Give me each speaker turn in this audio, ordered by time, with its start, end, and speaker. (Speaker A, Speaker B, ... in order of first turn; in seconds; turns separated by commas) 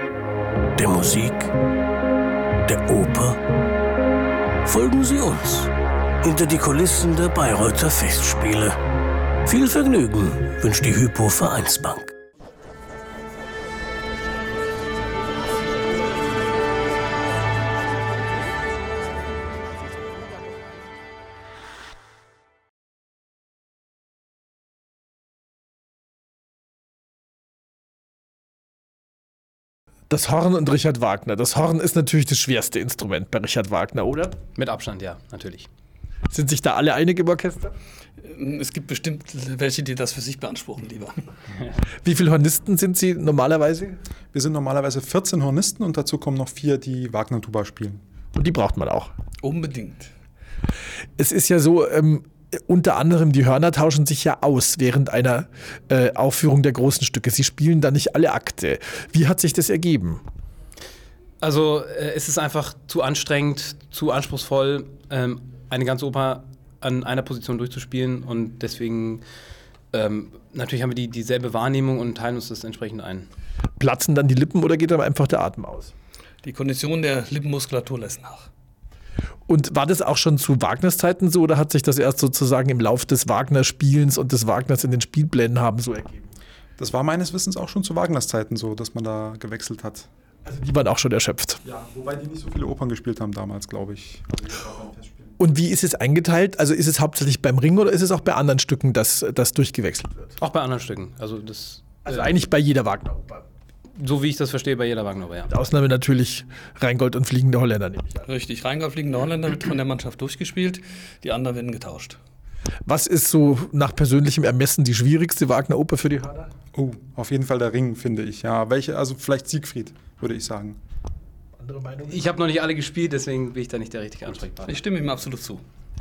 Speaker A: 0.8-1.5, Speaker A: 2.6-3.4, Speaker A: 4.6-5.7, Speaker A: 6.2-8.8, Speaker A: 9.4-12.1, Speaker B: 30.1-34.4, Speaker C: 34.5-35.7, Speaker B: 36.3-37.7, Speaker D: 38.2-41.1, Speaker B: 42.0-44.0, Speaker E: 44.3-48.0, Speaker B: 48.3-49.1, Speaker D: 49.4-50.1, Speaker B: 51.2-60.2, Speaker C: 61.4-69.2, Speaker C: 69.9-73.3, Speaker B: 73.8-75.9, Speaker D: 76.4-78.5, Speaker B: 79.5-86.3, Speaker E: 86.8-90.1, Speaker B: 90.4-91.6, Speaker E: 91.6-95.3, Speaker B: 95.4-100.3, Speaker C: 100.4-102.4, Speaker B: 102.0-103.4, Speaker C: 104.0-105.5, Speaker B: 105.5-108.2, Speaker D: 108.2-112.2, Speaker B: 112.8-116.5, Speaker E: 116.7-120.8, Speaker B: 121.6-122.3, Speaker C: 122.1-124.8, Speaker D: 124.7-125.6